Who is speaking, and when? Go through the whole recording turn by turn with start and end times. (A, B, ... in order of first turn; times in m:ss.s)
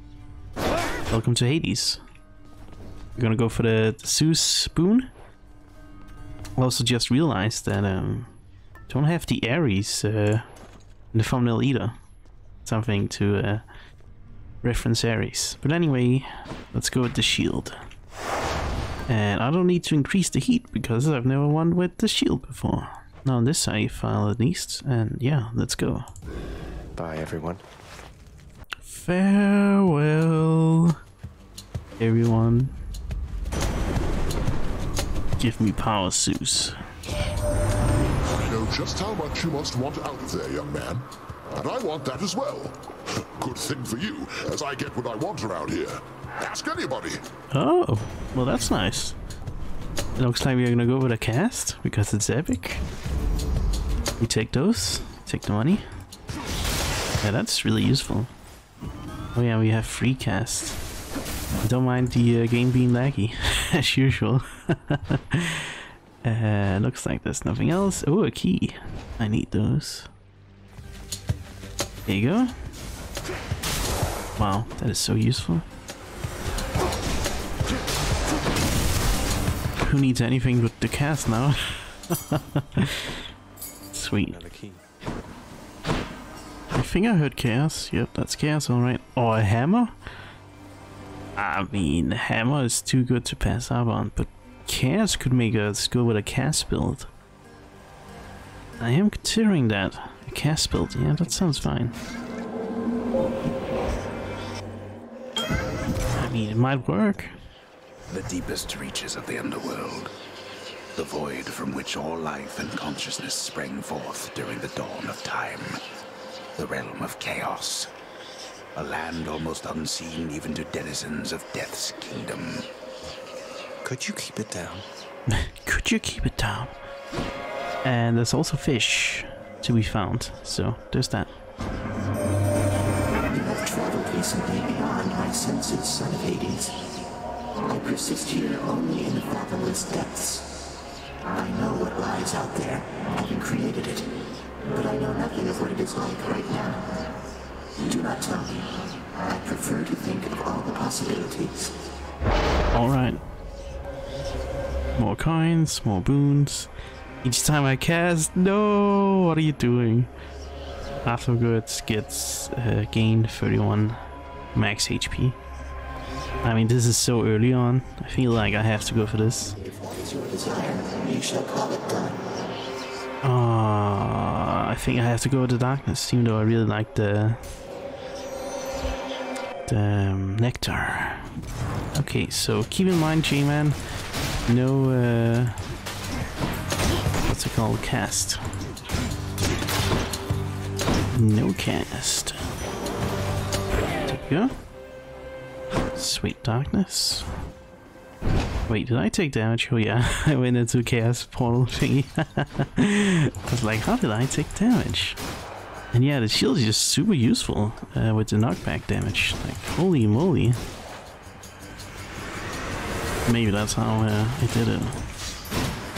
0:01.1-0:02.0 A
0:03.2-0:05.1 A
0:06.6-0:08.3 A
0:08.9-0:10.5 A
0:11.1-0:12.0 A
0:12.6-0:13.6 A
0:14.6-0:17.8 A
0:19.1-0:26.1 A
0:27.0-0:27.6 B
0:28.9-0:31.0 A
0:32.0-0:32.8 A
0:35.4-0:36.8 A
0:38.3-0:47.2 C
0:47.5-0:49.2 A
0:50.2-0:52.8 A
0:54.2-0:55.8 A
0:57.2-0:58.3 A
0:59.3-1:00.8 A
1:01.6-1:10.1 A
1:12.1-1:12.6 A
1:14.4-1:15.7 A
1:19.8-1:23.2 A
1:23.9-1:24.4 A
1:24.3-1:24.8 B
1:26.7-1:30.0 A
1:31.4-1:37.1 A
1:38.8-1:42.0 A
1:41.1-1:41.7 B
1:46.2-1:47.3 A
1:48.1-1:50.1 D
1:51.0-1:55.8 D
1:56.6-1:57.9 D
1:58.8-2:02.7 D
2:03.8-2:04.8 B
2:05.3-2:06.7 A
2:07.8-2:11.3 A
2:13.3-2:16.8 E
2:17.6-2:20.5 E
2:21.2-2:24.1 E
2:24.7-2:26.9 E
2:27.8-2:28.8 E
2:29.4-2:31.7 E
2:32.7-2:33.2 A
2:35.0-2:36.7 A
2:37.2-2:40.1 A
2:41.0-2:44.0 A
2:44.6-2:45.4 A
2:46.4-2:49.6 A
2:49.6-2:52.3 E
2:53.2-2:57.4 A
2:59.7-3:01.3 A
3:01.9-3:03.8 A
3:04.5-3:05.6 A
3:07.3-3:08.5 A
3:11.1-3:12.4 A
3:14.1-3:14.5 A
3:16.0-3:17.3 A
3:18.7-3:25.2 A
3:25.9-3:30.6 A
3:33.3-3:35.0 A